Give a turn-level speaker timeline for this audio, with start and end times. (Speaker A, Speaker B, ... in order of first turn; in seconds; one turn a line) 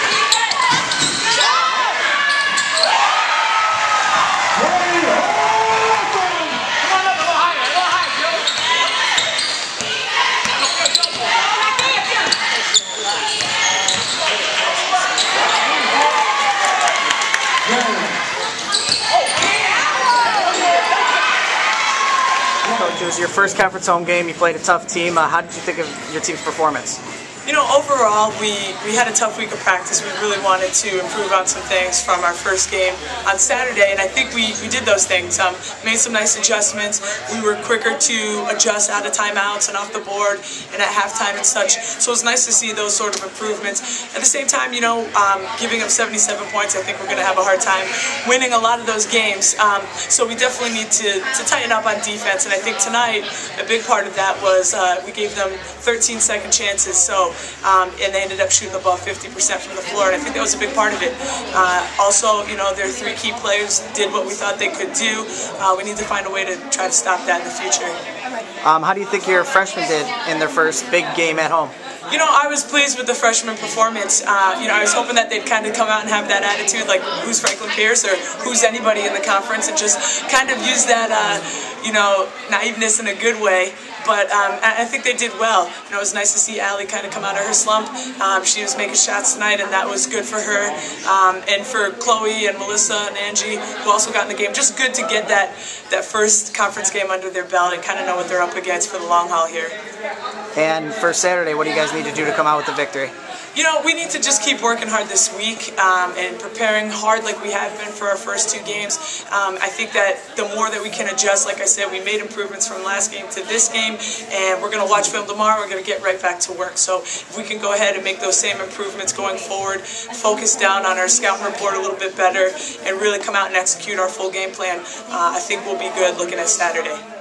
Speaker A: 22.6-27.0
Speaker B: 27.5-68.0
Speaker A: 68.6-71.7
Speaker B: 72.1-99.8
Speaker A: 100.6-103.1
Speaker B: 103.5-127.0